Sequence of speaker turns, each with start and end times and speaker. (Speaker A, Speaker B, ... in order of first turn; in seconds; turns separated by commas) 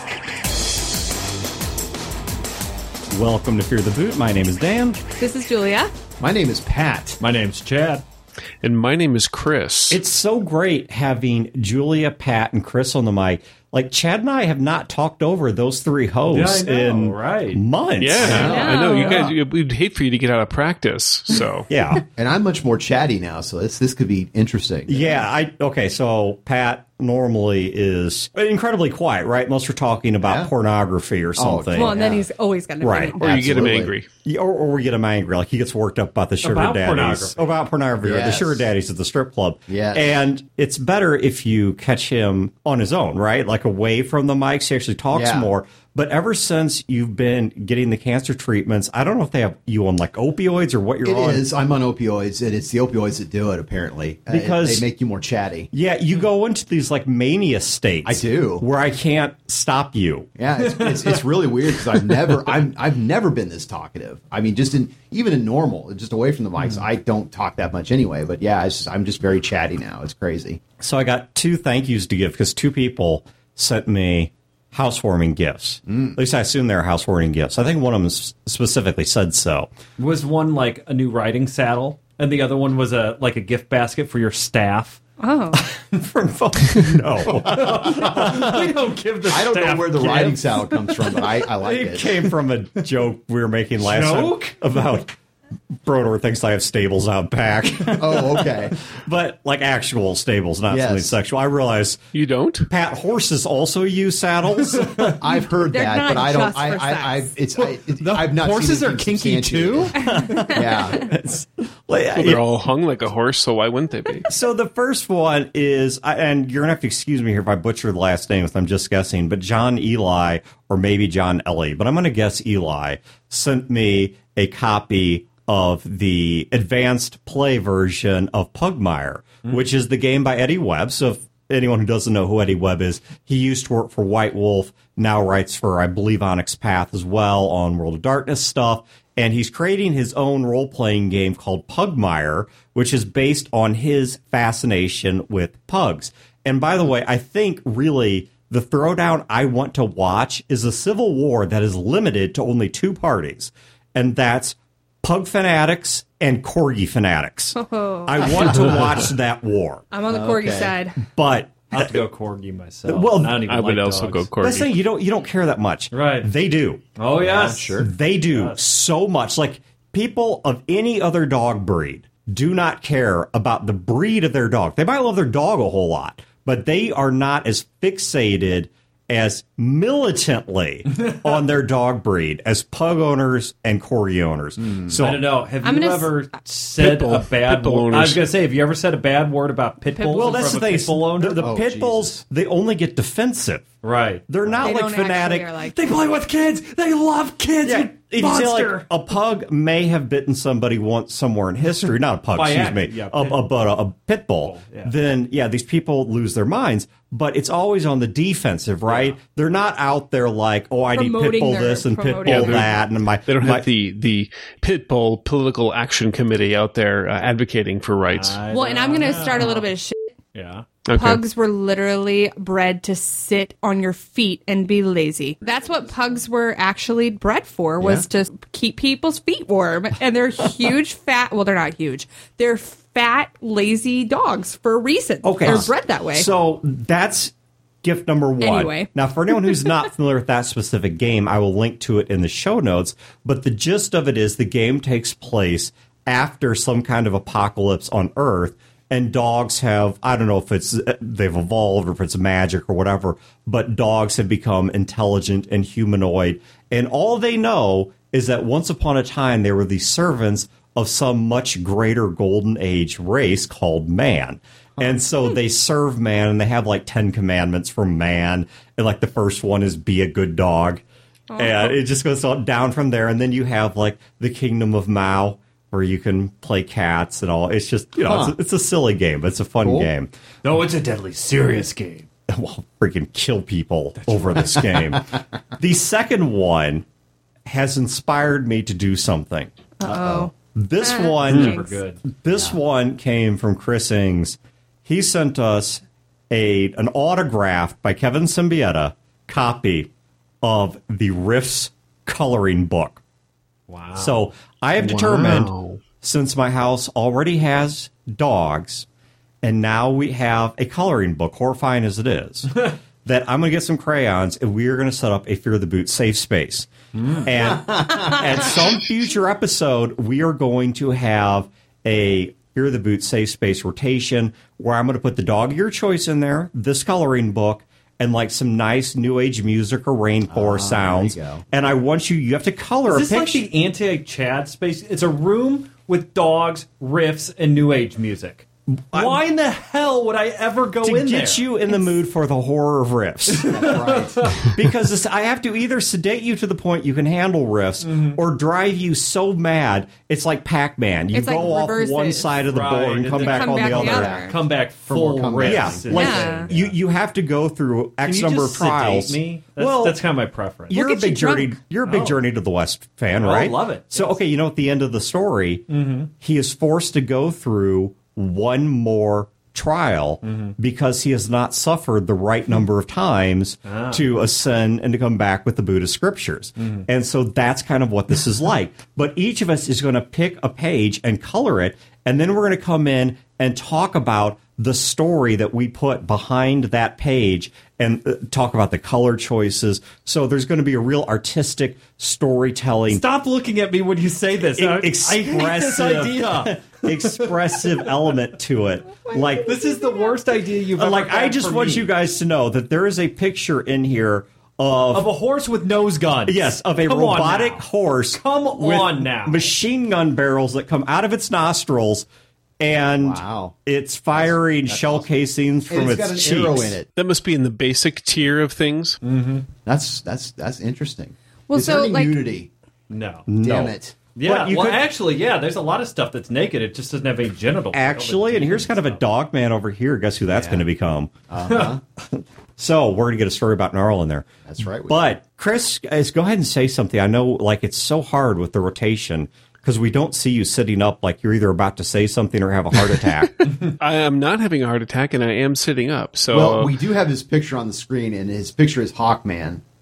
Speaker A: 3.1-5.0, Speaker B: 5.2-5.9, Speaker C: 6.2-7.2, Speaker D: 7.2-8.1, Speaker E: 8.6-10.0, Speaker A: 9.9-18.6, Speaker D: 16.3-17.6, Speaker E: 18.0-21.7, Speaker C: 18.2-18.8, Speaker D: 18.2-19.3, Speaker B: 18.4-19.2, Speaker A: 21.7-22.0, Speaker C: 22.1-25.2, Speaker A: 24.9-32.0, Speaker C: 30.2-30.5, Speaker C: 31.4-32.2, Speaker B: 31.7-33.2, Speaker A: 32.8-33.2, Speaker C: 33.2-33.9, Speaker E: 33.2-34.1, Speaker A: 34.2-51.5, Speaker D: 36.4-37.4, Speaker C: 38.0-38.7, Speaker C: 39.7-40.2, Speaker C: 45.1-45.5, Speaker C: 51.0-55.7, Speaker A: 54.3-54.9, Speaker A: 55.7-60.3, Speaker C: 58.0-58.6, Speaker C: 60.4-70.6, Speaker D: 60.6-61.2, Speaker A: 70.8-79.7, Speaker C: 75.9-76.2, Speaker D: 80.0-85.0, Speaker B: 85.2-85.6, Speaker A: 85.7-88.7, Speaker D: 87.3-90.8, Speaker C: 89.3-92.3, Speaker A: 91.6-95.2, Speaker D: 93.8-94.5, Speaker A: 95.8-102.0, Speaker C: 97.9-98.8, Speaker C: 100.7-101.2, Speaker E: 102.1-102.7, Speaker A: 102.7-105.2, Speaker C: 105.0-110.0, Speaker B: 105.7-107.3, Speaker D: 107.6-110.1, Speaker B: 110.0-110.7, Speaker A: 110.0-112.4, Speaker C: 110.5-111.0, Speaker E: 112.1-114.3, Speaker A: 114.3-159.9, Speaker B: 157.6-158.6, Speaker B: 159.9-161.0, Speaker C: 160.1-160.8, Speaker A: 161.1-162.0, Speaker D: 161.7-164.3, Speaker A: 162.9-163.4, Speaker E: 163.5-164.8, Speaker A: 164.4-166.8, Speaker D: 165.9-166.3, Speaker D: 167.0-168.6, Speaker C: 167.2-167.9, Speaker A: 167.8-185.3, Speaker C: 184.6-185.0, Speaker D: 185.0-191.4, Speaker B: 185.6-186.1, Speaker E: 186.8-188.3, Speaker B: 190.0-190.6, Speaker A: 190.1-193.7, Speaker C: 191.4-192.2, Speaker D: 193.8-194.7, Speaker A: 194.3-195.5, Speaker B: 194.6-195.8, Speaker D: 195.7-198.9, Speaker A: 197.7-213.7, Speaker D: 202.3-203.5, Speaker D: 204.4-204.9, Speaker D: 208.9-209.2, Speaker B: 210.9-212.7, Speaker E: 212.2-218.4, Speaker D: 218.1-219.7, Speaker B: 218.5-220.1, Speaker D: 220.3-220.7, Speaker E: 220.9-221.2, Speaker B: 220.9-236.3, Speaker A: 235.2-270.8, Speaker C: 235.4-235.7, Speaker B: 238.4-239.6, Speaker B: 271.3-271.7, Speaker A: 271.4-280.1, Speaker C: 278.0-278.4, Speaker C: 279.6-279.9, Speaker D: 280.4-282.1, Speaker A: 282.3-286.9, Speaker D: 284.0-284.6, Speaker C: 284.6-285.1, Speaker A: 287.5-299.9, Speaker B: 289.8-291.8, Speaker D: 291.2-292.0, Speaker A: 300.4-303.0, Speaker D: 303.7-304.2, Speaker A: 304.0-308.9, Speaker E: 304.8-305.8, Speaker A: 309.4-333.5, Speaker D: 316.9-317.3, Speaker C: 317.4-318.5, Speaker C: 330.3-331.4, Speaker D: 332.9-341.5, Speaker A: 338.9-339.2, Speaker A: 340.8-343.8, Speaker D: 343.3-344.5, Speaker C: 343.5-344.4, Speaker A: 344.5-354.2, Speaker D: 347.8-348.2, Speaker B: 351.1-352.3, Speaker D: 352.4-356.8, Speaker B: 353.1-354.3, Speaker C: 353.7-356.0, Speaker A: 355.4-360.0, Speaker B: 355.9-356.5, Speaker D: 358.0-360.8, Speaker A: 360.7-365.7, Speaker B: 360.7-361.6, Speaker D: 361.8-362.2, Speaker D: 363.2-364.2, Speaker D: 365.7-366.1, Speaker A: 366.2-393.0, Speaker D: 370.2-370.6, Speaker D: 373.6-374.1, Speaker D: 376.6-376.9, Speaker D: 392.9-397.9, Speaker A: 394.6-399.6, Speaker D: 399.4-401.9, Speaker B: 399.6-399.9, Speaker A: 400.8-405.1, Speaker D: 404.9-409.5, Speaker A: 406.3-412.1, Speaker A: 412.6-416.8, Speaker C: 413.0-413.6, Speaker C: 414.1-415.1, Speaker C: 415.7-416.9, Speaker E: 417.0-419.0, Speaker D: 419.0-419.5, Speaker C: 419.7-422.5, Speaker B: 421.5-422.2, Speaker D: 422.9-423.3, Speaker A: 423.3-424.8, Speaker C: 423.4-423.9, Speaker D: 424.1-429.0, Speaker A: 427.7-431.1, Speaker C: 430.3-430.7, Speaker C: 431.3-431.8, Speaker A: 432.0-434.3, Speaker C: 434.5-435.0, Speaker A: 434.9-443.6, Speaker E: 443.6-446.8, Speaker C: 446.3-449.6